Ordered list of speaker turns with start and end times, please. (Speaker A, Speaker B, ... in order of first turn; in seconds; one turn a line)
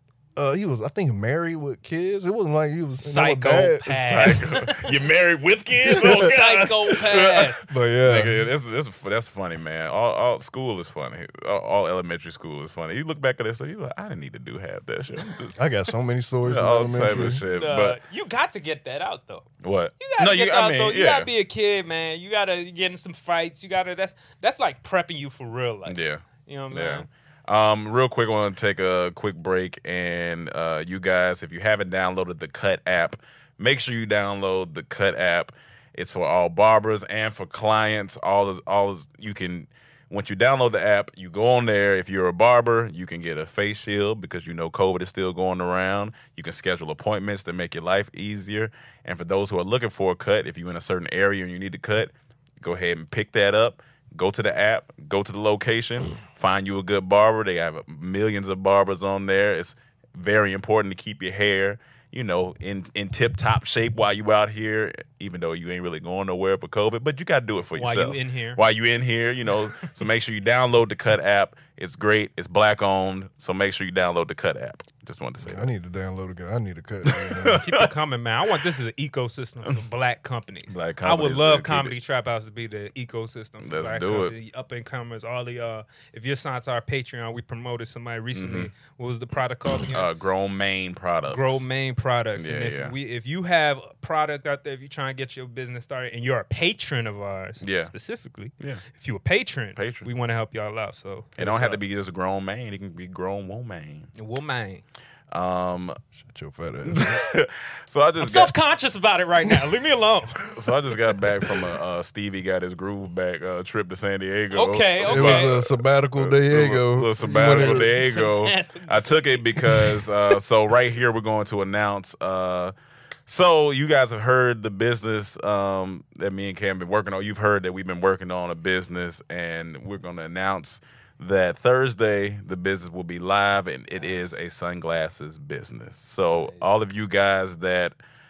Speaker A: 0.4-4.3
Speaker B: 3.0-4.9
Speaker C: 4.0-15.6
Speaker B: 5.9-7.6
Speaker A: 5.9-6.3
Speaker A: 7.7-8.4
Speaker A: 15.6-17.4
Speaker C: 16.4-18.0
Speaker B: 17.5-19.5
Speaker C: 19.6-21.3
Speaker B: 20.0-27.1
Speaker C: 25.9-75.7
Speaker B: 67.8-68.6
Speaker A: 75.4-77.7
Speaker C: 77.0-78.0
Speaker B: 77.5-90.1
Speaker C: 80.7-82.0
Speaker C: 83.6-84.3
Speaker C: 88.3-88.7
Speaker C: 89.9-91.6
Speaker B: 91.3-101.8
Speaker C: 92.4-92.9
Speaker C: 97.6-97.9
Speaker C: 99.8-100.1
Speaker C: 101.4-104.1
Speaker B: 104.2-104.8
Speaker C: 105.3-106.0
Speaker A: 106.2-107.2
Speaker C: 106.8-108.5
Speaker B: 108.2-110.6
Speaker C: 110.5-122.7
Speaker B: 114.5-115.5
Speaker A: 115.0-117.9
Speaker B: 117.2-120.1
Speaker C: 123.3-137.9
Speaker B: 133.9-134.4
Speaker B: 136.4-136.8